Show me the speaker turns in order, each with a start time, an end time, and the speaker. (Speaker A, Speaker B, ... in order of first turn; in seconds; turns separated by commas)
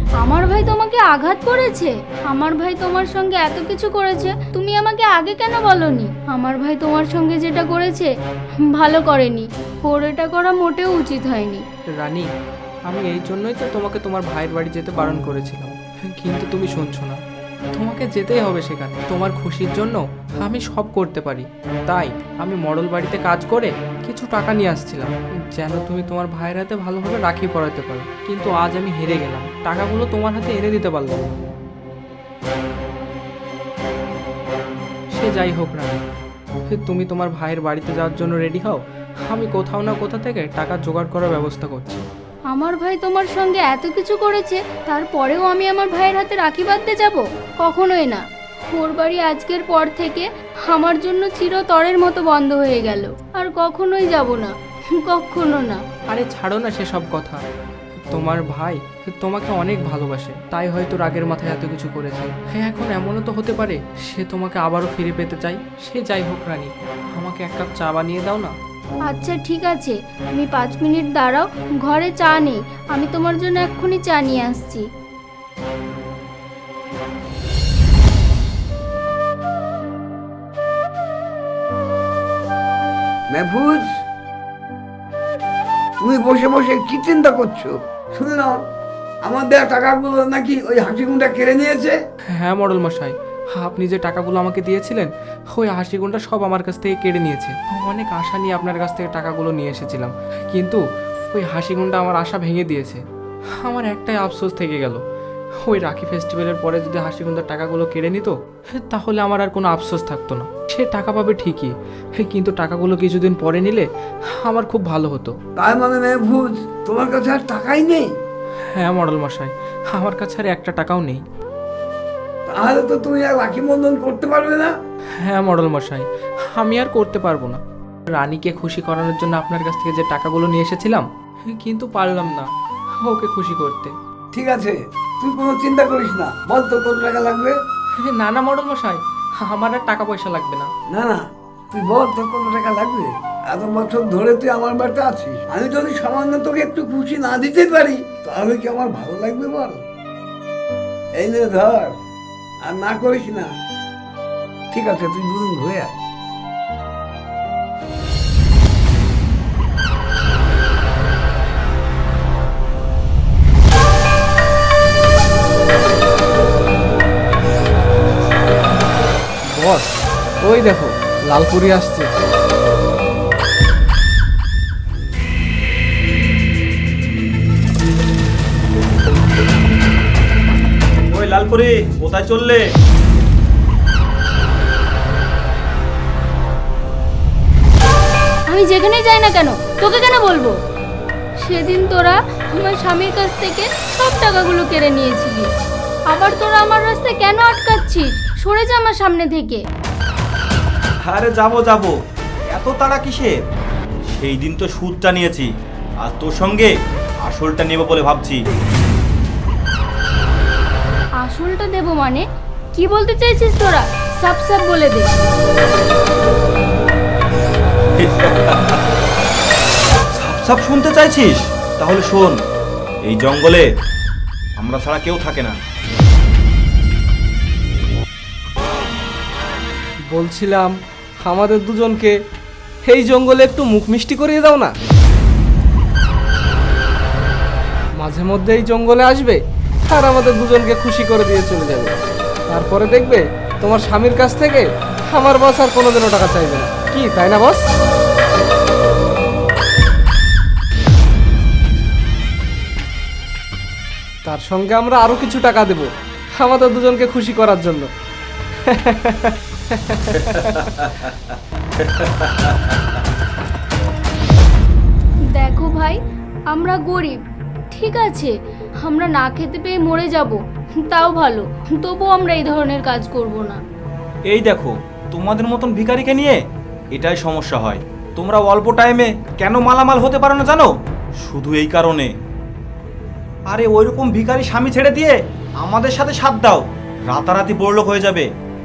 Speaker A: 0.2-11.6, Speaker B: 12.0-12.3, Speaker B: 12.9-17.2, Speaker B: 17.7-31.4, Speaker B: 35.1-36.0, Speaker B: 36.7-42.0, Speaker A: 42.5-55.8, Speaker B: 56.1-57.4, Speaker B: 58.1-68.5, Speaker A: 69.1-74.9, Speaker C: 83.3-84.0, Speaker C: 86.0-88.6, Speaker C: 89.2-92.0, Speaker B: 92.3-103.0, Speaker B: 103.6-105.0, Speaker B: 105.6-115.3, Speaker C: 115.5-118.1, Speaker B: 118.7-121.2, Speaker C: 122.5-124.7, Speaker B: 125.2-132.5, Speaker B: 133.0-133.9, Speaker C: 134.3-137.6, Speaker B: 138.0-140.7, Speaker C: 140.9-149.8, Speaker C: 151.2-151.9, Speaker C: 152.6-153.5, Speaker C: 154.7-155.9, Speaker D: 169.5-172.1, Speaker E: 181.1-182.6, Speaker A: 188.5-190.6, Speaker A: 191.4-195.5, Speaker A: 196.1-199.6, Speaker E: 201.1-201.9, Speaker E: 202.5-203.3, Speaker E: 204.1-205.5, Speaker E: 206.0-206.7, Speaker E: 207.2-208.4, Speaker A: 211.2-215.1, Speaker E: 218.0-218.8, Speaker E: 220.2-222.4, Speaker E: 223.0-223.7, Speaker E: 224.6-225.6, Speaker D: 230.1-232.1, Speaker D: 232.8-234.7, Speaker D: 238.0-241.9, Speaker D: 242.5-247.6, Speaker D: 254.2-257.9, Speaker D: 258.6-260.7, Speaker E: 261.8-262.7, Speaker A: 265.3-266.0, Speaker A: 266.5-273.6, Speaker E: 274.3-276.4, Speaker E: 276.9-280.7, Speaker E: 281.2-282.1, Speaker E: 283.5-288.3